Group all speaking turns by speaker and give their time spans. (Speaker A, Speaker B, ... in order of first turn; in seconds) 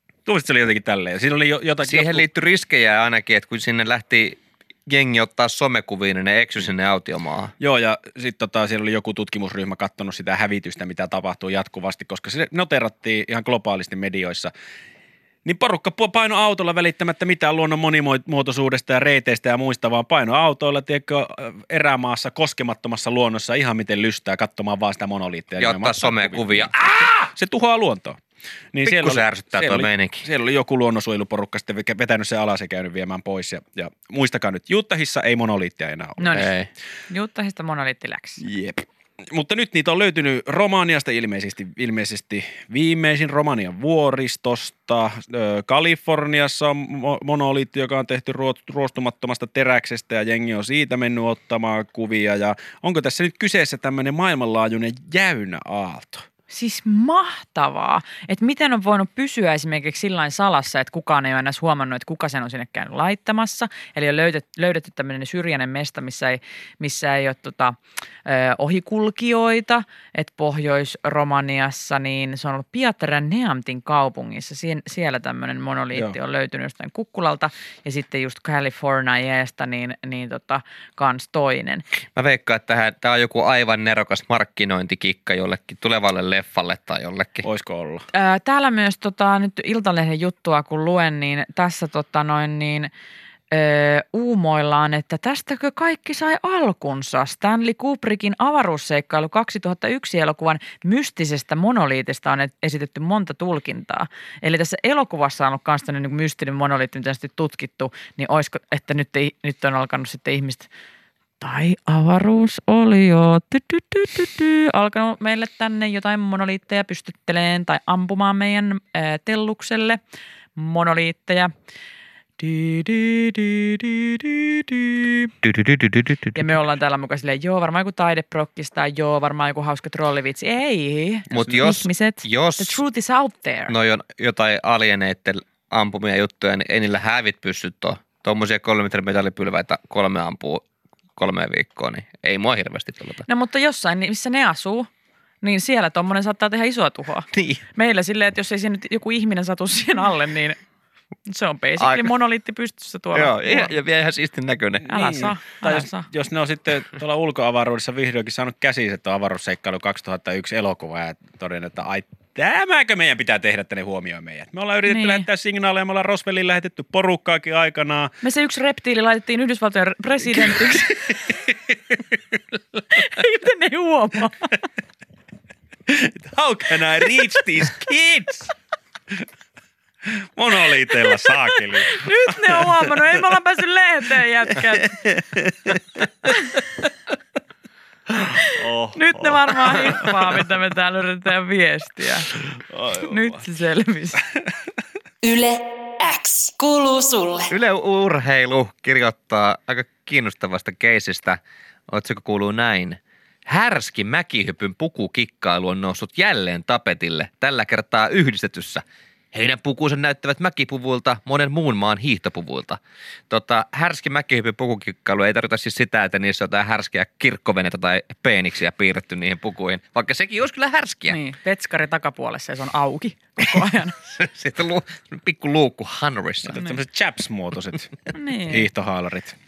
Speaker A: 0.3-2.2, 7.6-14.5, 15.4-28.2, 28.7-36.3, 38.4-56.3, 87.4-88.1, 154.8-168.1, 170.4-172.8, 175.9-178.5, 180.1-183.1, 184.6-186.6, 188.1-190.4, 192.4-193.4, 226.4-229.3
Speaker B: 1.8-7.5, 25.6-27.1, 28.8-30.3, 36.3-36.7, 82.2-87.5, 125.4-126.4, 131.3-132.8, 133.7-140.7, 141.2-143.2, 147.3-147.6, 151.8-152.1, 153.1-154.9, 197.5-221.2, 224.0-226.6
Speaker C: 36.2-36.5, 37.1-38.4, 56.5-81.8, 88.1-92.9, 93.5-110.7, 111.4-120.0, 120.6-121.5, 122.4-125.3, 126.3-133.7, 143.3-144.9, 145.4-150.6, 151.3-153.7, 154.9-156.1, 164.9-165.3, 168.2-171.2, 172.9-174.6, 180.9-185.0, 186.3-186.6, 188.4-192.3, 193.0-194.2, 221.1-224.0, 228.1-228.7
Speaker D: 195.2-197.5